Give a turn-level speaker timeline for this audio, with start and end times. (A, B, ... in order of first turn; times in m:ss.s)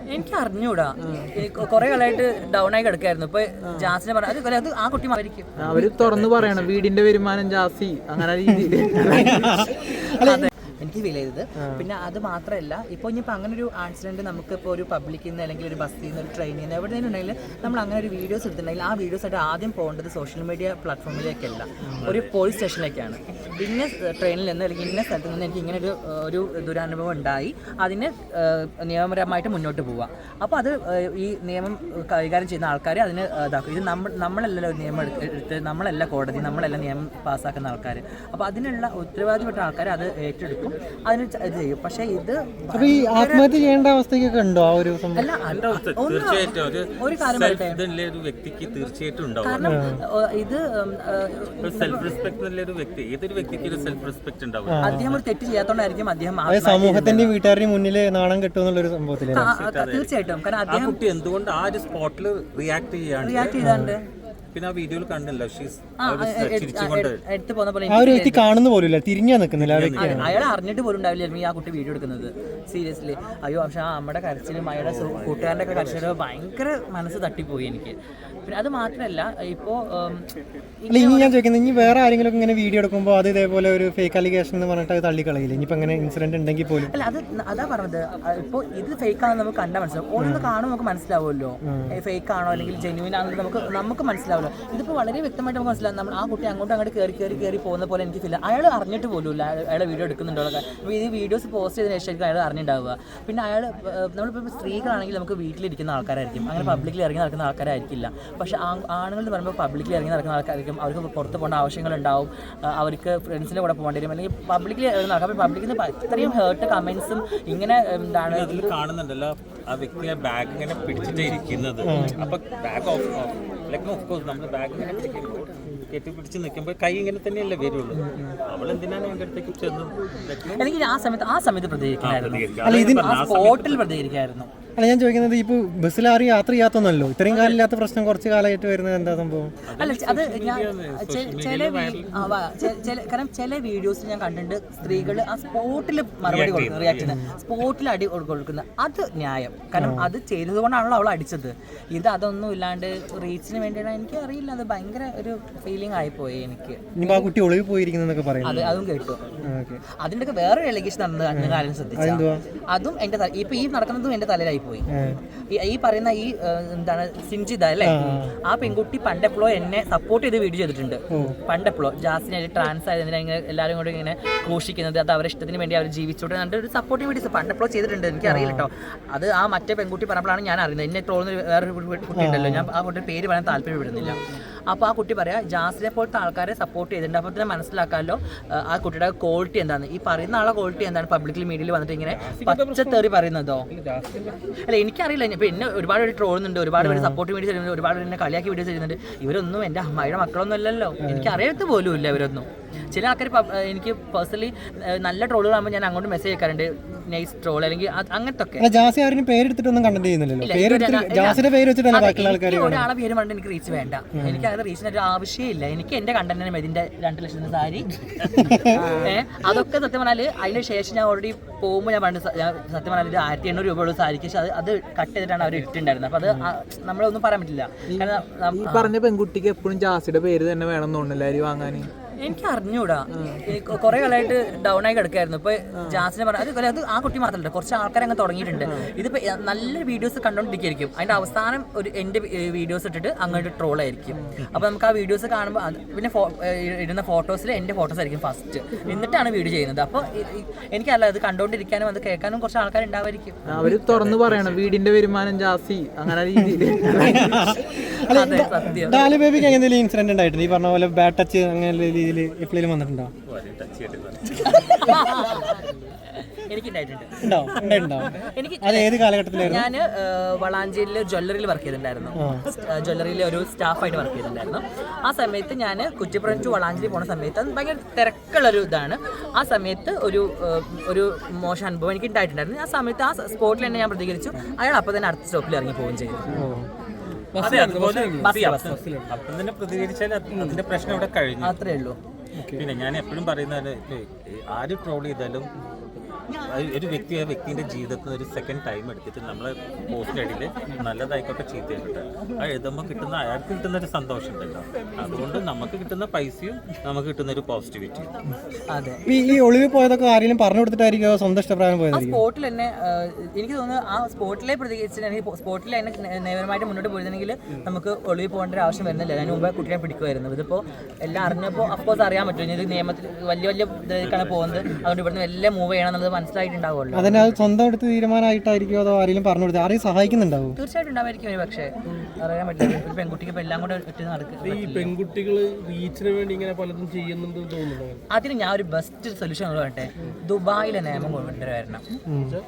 0:00.1-0:05.6 A
0:05.6-0:06.8 B
0:05.6-0:09.0 C
0:08.5-0:10.5 D
0:10.2-0:43.5 A
0:22.0-0:22.3 B
0:42.7-0:45.3 D
0:45.2-0:47.8 A
0:45.5-0:49.7 B
0:49.4-0:52.2 A
0:49.6-0:50.0 D
0:51.6-0:55.2 B
0:54.7-0:55.0 D
0:54.8-0:57.3 A
0:56.5-0:59.5 D
0:59.3-1:01.0 A
0:59.4-1:00.1 B
1:00.6-1:03.6 B
1:03.2-1:04.0 A
1:03.6-1:04.0 D
1:04.5-1:07.2 B
1:06.0-1:08.4 A
1:07.9-1:10.3 D
1:09.6-1:10.4 B
1:09.9-1:20.2 A
1:14.8-1:16.2 B
1:20.8-1:21.3 A
1:20.9-1:26.9 D
1:26.9-1:58.8 A
1:30.2-1:30.5 D
1:31.6-1:31.9 D
1:32.5-1:32.9 B
1:46.6-1:46.9 D
1:58.3-2:10.6 B
2:01.8-2:02.2 D
2:01.9-2:02.3 A
2:10.5-2:14.5 A
2:12.0-2:13.8 B
2:12.6-2:13.0 D
2:14.8-2:19.5 D
2:17.3-2:17.6 B
2:19.7-2:22.4 B
2:19.8-2:37.3 A
2:24.8-2:25.2 D
2:26.2-2:27.2 B
2:27.0-2:27.3 D
2:29.8-2:30.1 D
2:37.0-2:38.8 D
2:38.4-2:39.2 A
2:38.5-2:38.8 B
2:39.4-2:39.8 D
2:40.0-2:44.8 A
2:41.3-2:42.4 D
2:44.9-2:45.2 D
2:45.5-3:13.7 A
2:47.8-2:48.3 D
2:58.2-2:58.7 D
3:02.1-3:02.7 D
3:12.2-3:13.0 E
3:13.7-3:14.3 E
3:14.7-3:28.7 A
3:16.8-3:17.2 D
3:21.0-3:21.4 D
3:28.6-3:32.9 D
3:30.4-3:37.9 A
3:34.1-3:34.5 D
3:38.3-3:39.0 D
3:38.5-3:48.9 A
3:48.6-3:51.9 C
3:52.2-4:13.4 A
4:13.5-4:14.6 B
4:13.6-4:17.0 C
4:16.4-4:23.1 D
4:18.1-4:19.1 A
4:23.3-4:25.0 B
4:24.5-4:46.4 A
4:27.2-4:29.7 D
4:32.2-4:32.4 D
4:46.3-4:46.7 D
4:47.3-4:49.1 E
4:47.4-4:51.6 B
4:48.2-4:48.8 A
4:50.3-4:50.6 E
4:51.4-4:52.0 A
4:52.5-4:55.5 B
4:56.3-5:08.1 B
5:08.7-5:09.0 A
5:09.0-5:12.2 D
5:11.9-5:27.4 A
5:24.0-5:24.8 B
5:26.9-5:30.6 D
5:30.6-5:34.9 A
5:34.4-5:38.0 E
5:38.1-5:41.8 A
5:42.1-5:42.4 D